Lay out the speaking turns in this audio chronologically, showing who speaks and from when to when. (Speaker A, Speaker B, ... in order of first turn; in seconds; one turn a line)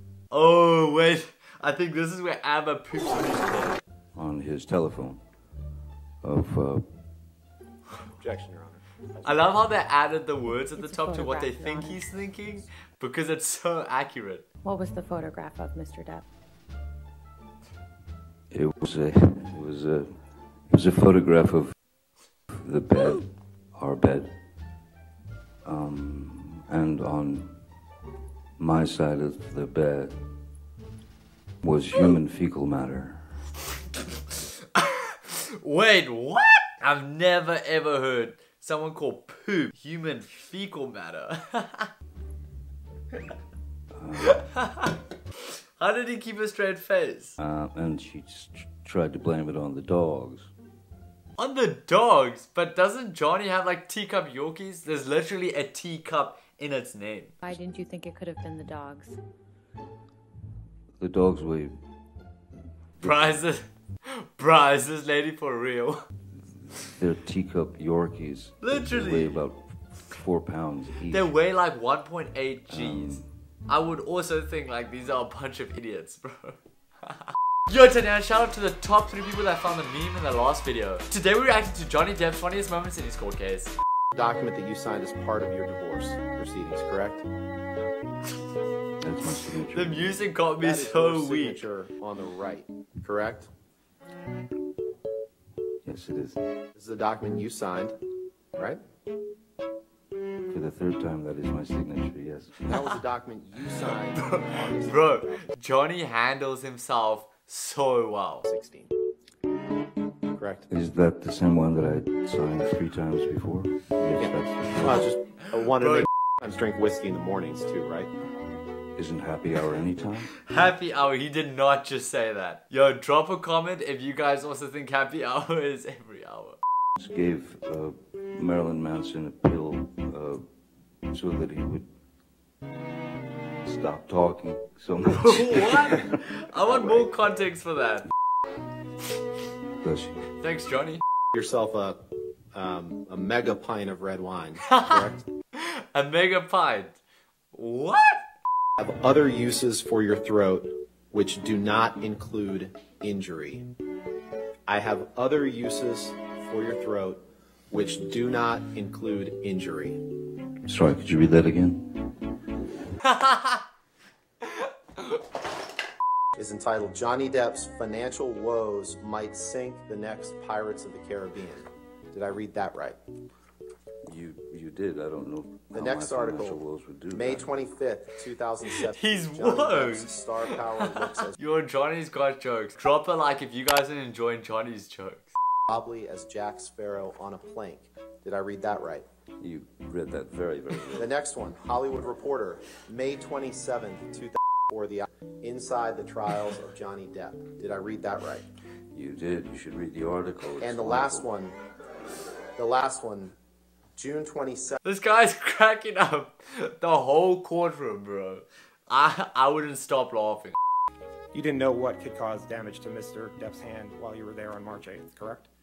Speaker A: 0.3-3.8
Speaker B: 4.2-5.2
Speaker B: 6.2-6.8
Speaker C: 8.2-8.8
Speaker A: 9.2-14.4
Speaker D: 10.8-12.1
Speaker D: 14.6-16.2
Speaker B: 18.5-21.8
Speaker B: 22.5-24.3
Speaker B: 25.6-27.6
Speaker B: 28.6-30.1
Speaker B: 31.6-33.2
Speaker A: 34.8-41.9
Speaker B: 43.9-44.4
Speaker A: 44.2-45.0
Speaker A: 45.8-47.4
Speaker B: 47.4-50.5
Speaker A: 51.4-57.4
Speaker D: 57.4-59.2
Speaker B: 61.0-61.7
Speaker A: 63.0-66.0
Speaker B: 63.0-63.3
Speaker B: 66.9-71.3
Speaker A: 68.6-69.4
Speaker A: 71.1-77.2
Speaker B: 72.7-73.3
Speaker A: 77.7-83.7
Speaker C: 84.1-87.2
Speaker B: 89.0-90.2
Speaker A: 89.7-91.7
Speaker C: 90.6-93.5
Speaker B: 95.8-96.4
Speaker C: 96.8-98.0
Speaker B: 100.5-102.6
Speaker C: 102.7-105.4
Speaker A: 103.9-108.5
Speaker C: 108.4-108.9
Speaker C: 110.3-110.7
Speaker B: 110.7-115.0
Speaker C: 114.2-118.1
Speaker A: 115.6-116.1
Speaker B: 119.0-120.3
Speaker A: 120.4-126.6
Speaker B: 127.0-130.4
Speaker B: 131.1-131.9
Speaker B: 133.6-136.1
Speaker A: 135.1-138.1
Speaker B: 136.8-137.0
Speaker B: 139.8-140.2
Speaker A: 140.4-141.0
Speaker C: 141.3-142.0
Speaker C: 142.5-145.3
Speaker A: 144.7-147.0
Speaker A: 147.5-148.2
Speaker C: 148.8-153.7
Speaker C: 154.7-160.0
Speaker B: 160.7-162.0
Speaker A: 163.0-163.6
Speaker C: 166.4-173.0
Speaker B: 174.1-177.5
Speaker C: 175.7-176.6
Speaker C: 177.1-181.4
Speaker A: 178.7-185.3
Speaker C: 185.7-189.1
Speaker B: 189.4-191.1
Speaker C: 191.0-198.5
Speaker B: 198.9-201.3
Speaker C: 200.6-201.6
Speaker C: 202.6-203.3
Speaker C: 204.0-204.8
Speaker A: 204.8-210.6
Speaker E: 211.3-215.5